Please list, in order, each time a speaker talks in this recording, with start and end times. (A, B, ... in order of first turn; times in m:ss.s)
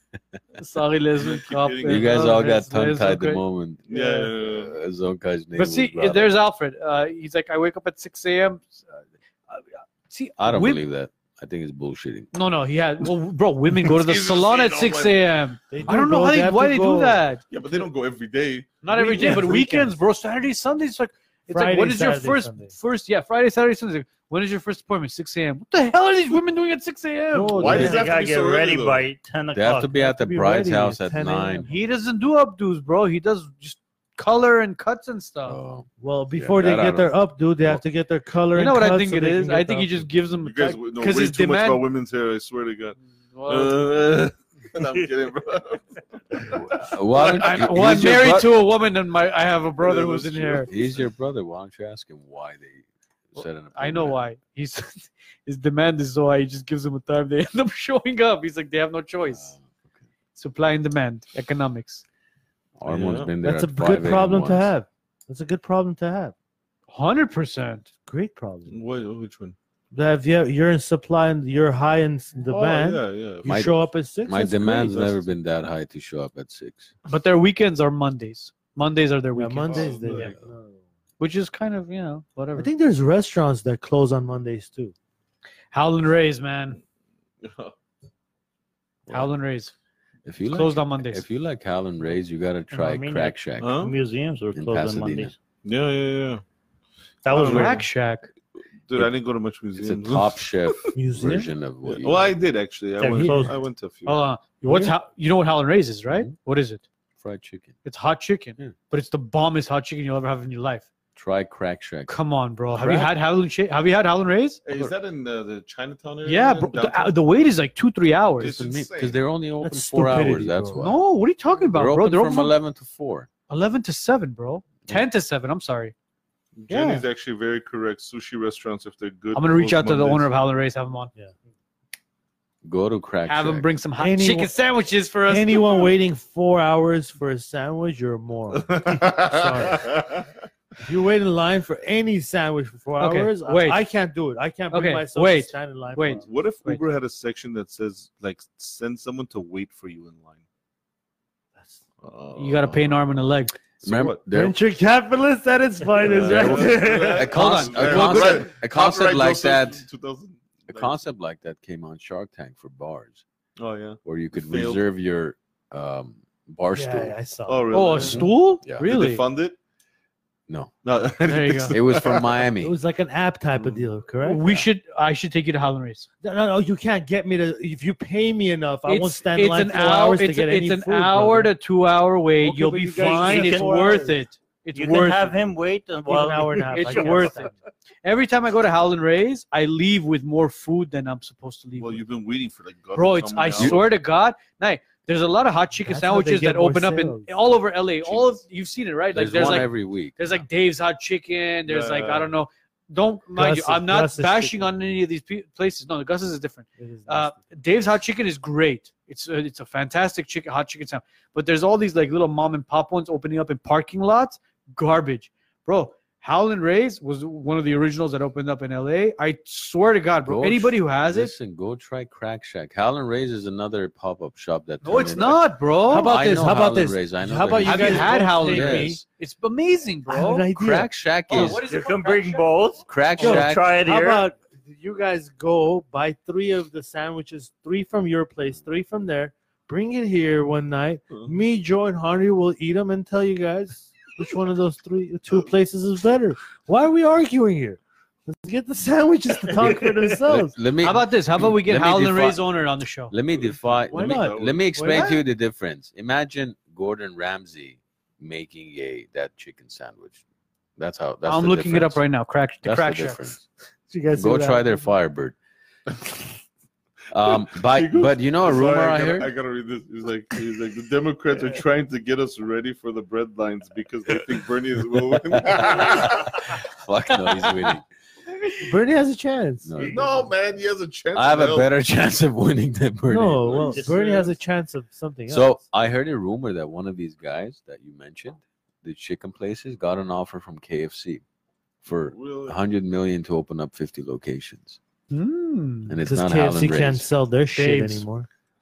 0:00.6-0:03.4 A
0:01.2-0:02.5 B
0:01.8-0:06.3 C
0:03.9-0:04.7 B
0:05.6-0:10.8 A
0:10.4-0:12.3 C
0:12.3-0:17.4 A
0:13.8-0:15.2 B
0:15.7-0:17.2 D
0:17.5-0:19.4 B
0:18.8-0:27.9 A
0:18.9-0:19.9 D
0:21.5-0:22.7 D
0:27.3-0:28.1 D
0:27.6-0:29.0 B
0:27.7-0:29.9 E
0:29.5-0:31.7 C
0:29.9-0:31.7 D
0:31.6-0:35.6 A
0:35.4-0:37.1 C
0:36.0-0:40.1 D
0:38.5-0:41.8 A
0:40.4-0:48.5 B
0:43.0-0:43.9 A
0:46.4-0:48.5 C
0:47.2-0:50.7 A
0:49.8-0:51.0 B
0:50.6-0:54.2 C
0:53.7-0:59.5 A
0:59.3-1:00.0 C
1:00.3-1:02.0 A
1:02.8-1:04.7 C
1:02.8-1:03.3 B
1:03.4-1:06.3 D
1:06.9-1:07.9 A
1:08.0-1:08.8 D
1:08.7-1:09.6 B
1:09.9-1:15.1 D
1:12.5-1:13.7 B
1:13.4-1:16.9 C
1:14.7-1:15.2 B
1:17.1-1:20.2 A
1:19.3-1:20.8 D
1:19.7-1:20.3 B
1:21.2-1:22.7 A
1:22.6-1:24.9 D
1:25.7-1:26.8 A
1:27.4-1:27.7 B
1:29.1-1:29.7 A
1:30.2-1:33.8 C
1:30.5-1:31.2 A
1:32.7-1:35.3 E
1:33.6-1:33.9 B
1:34.5-1:35.3 C
1:35.6-1:36.4 B
1:37.2-1:37.9 E
1:37.3-1:37.8 B
1:37.4-1:38.3 A
1:38.9-1:40.7 B
1:39.8-1:42.3 C
1:40.9-1:41.5 D
1:41.8-1:44.2 B
1:43.0-1:43.6 E
1:43.1-1:43.5 D
1:44.0-1:46.8 A
1:44.6-1:44.9 D
1:47.2-1:47.8 C
1:47.8-1:50.9 A
1:51.2-1:52.1 C
1:52.1-1:54.6 A
1:52.8-1:53.1 D
1:54.6-1:57.1 B
1:56.2-1:58.6 A
1:58.4-1:59.2 B
1:58.4-2:01.0 C
1:59.6-2:00.9 D
2:00.8-2:02.5 A
2:01.5-2:03.3 C
2:03.5-2:05.9 A
2:06.6-2:10.3 B
2:06.7-2:07.0 A
2:09.3-2:11.1 A
2:12.6-2:13.7 C
2:13.2-2:15.9 A
2:14.0-2:14.5 D
2:15.2-2:20.0 D
2:18.6-2:20.2 B
2:20.8-2:26.3 D
2:23.0-2:23.8 A
2:24.7-2:26.8 A
2:26.2-2:30.4 B
2:32.0-2:33.2 B
2:32.4-2:33.6 A
2:33.8-2:34.2 B
2:33.8-2:34.6 C
2:34.3-2:37.3 D
2:36.0-2:41.0 B
2:36.1-2:39.8 C
2:37.3-2:38.5 A
2:40.7-2:43.2 C
2:43.6-2:44.8 B
2:44.0-2:47.2 C
2:46.7-2:48.3 D
2:47.5-2:49.6 B
2:47.7-2:49.2 A
2:50.8-2:52.4 B
2:51.2-2:51.7 A
2:51.7-2:52.8 C
2:52.6-2:54.6 D
2:53.6-2:53.8 B
2:54.2-2:56.1 A
2:56.2-3:01.5 D
2:58.8-3:05.3 A
3:02.4-3:04.2 D
3:03.0-3:04.0 E
3:04.7-3:07.4 E
3:06.0-3:07.5 D
3:06.7-3:07.5 A
3:08.0-3:12.0 A
3:11.8-3:13.9 B
3:12.9-3:41.3 A
3:15.8-3:17.3 D
3:18.0-3:18.4 B
3:19.1-3:20.4 C
3:21.6-3:22.3 B
3:23.4-3:25.0 D
3:26.8-3:27.4 D
3:40.2-3:49.0 C
3:44.8-3:46.3 A
3:45.9-3:49.0 D
3:47.6-3:50.5 A
3:50.1-3:50.9 D
3:50.6-3:51.6 C
3:51.3-3:52.5 A
3:51.3-3:54.2 E
3:52.9-3:53.8 C
3:53.2-4:10.6 D
4:09.6-4:10.0 E
4:10.3-4:12.4 C
4:10.8-4:13.2 A
4:13.1-4:20.2 C
4:13.3-4:15.2 B
4:13.9-4:15.2 D
4:20.8-4:22.0 C
4:21.2-4:23.3 A
4:22.6-4:23.4 C
4:23.9-4:24.9 D
4:24.1-4:25.4 C
4:27.1-4:29.3 C
4:27.3-4:36.5 B
4:35.3-4:37.8 C
4:37.2-4:37.7 A
4:38.6-4:40.0 D
4:39.6-4:40.0 C
4:39.8-4:40.1 E
4:39.8-4:41.7 B
4:41.1-4:43.8 C
4:43.1-4:45.6 D
4:43.6-4:44.3 E
4:43.8-4:44.2 B
4:45.3-4:51.2 C
4:51.8-4:54.8 C
4:52.0-4:52.6 B
4:55.1-4:56.0 A
4:55.9-4:57.1 C
4:56.0-4:58.3 D
4:57.5-4:58.0 A